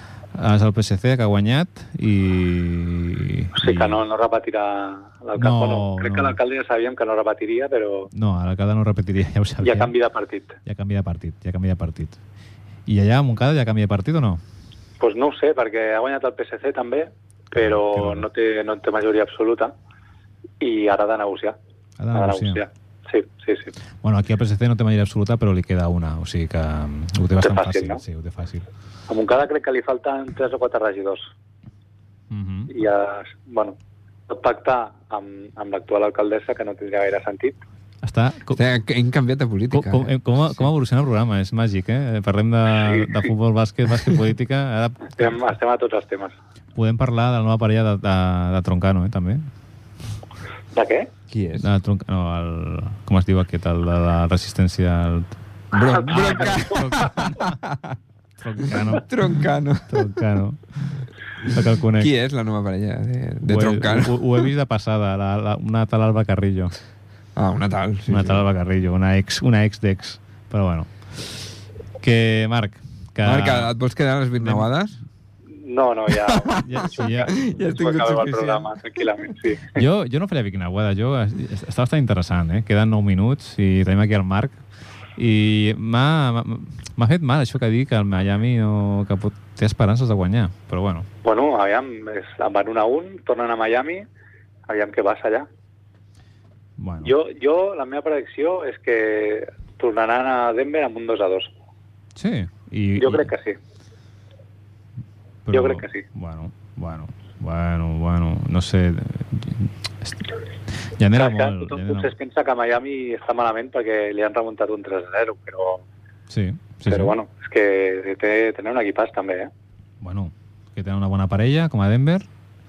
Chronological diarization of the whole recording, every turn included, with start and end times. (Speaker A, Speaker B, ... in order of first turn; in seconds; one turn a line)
Speaker A: 0.3-4.0
Speaker B: 3.6-8.1
Speaker A: 5.3-6.4
Speaker A: 8.1-9.9
Speaker B: 9.6-10.6
Speaker A: 10.7-12.2
Speaker A: 12.9-14.4
Speaker B: 15.0-19.7
Speaker A: 17.5-18.3
Speaker B: 20.6-21.6
Speaker A: 22.0-22.6
Speaker B: 22.1-23.7
Speaker A: 24.0-28.6
Speaker B: 27.4-28.0
Speaker B: 29.1-31.3
Speaker A: 32.3-32.7
Speaker B: 32.7-33.8
Speaker B: 34.3-37.6
Speaker A: 38.0-38.6
Speaker C: 38.5-40.6
Speaker A: 39.7-45.3
Speaker B: 45.1-46.4
Speaker A: 46.8-49.5
Speaker B: 50.7-51.1
Speaker C: 51.3-51.7
Speaker A: 51.6-55.4
Speaker C: 55.7-58.0
Speaker B: 55.8-56.7
Speaker A: 55.9-57.6
Speaker A: 58.4-59.1
Speaker C: 58.7-60.0
Speaker A: 59.9-62.1
Speaker C: 62.0-64.2
Speaker A: 63.5-66.7
Speaker C: 67.4-68.5
Speaker A: 68.1-70.9
Speaker A: 72.0-73.7
Speaker C: 73.2-75.0
Speaker A: 74.4-74.7
Speaker B: 75.5-79.8
Speaker C: 76.3-76.6
Speaker A: 76.6-77.3
Speaker C: 77.3-78.8
Speaker A: 79.8-84.6
Speaker A: 85.2-91.1
Speaker B: 91.2-94.1
Speaker B: 94.7-95.5
Speaker A: 96.8-97.1
Speaker B: 97.0-101.5
Speaker A: 102.2-103.3
Speaker B: 103.0-103.6
Speaker A: 105.5-110.3
Speaker B: 105.5-106.0
Speaker A: 111.0-112.1
Speaker B: 111.2-115.8
Speaker A: 116.3-117.2
Speaker B: 116.9-119.5
Speaker A: 120.0-122.3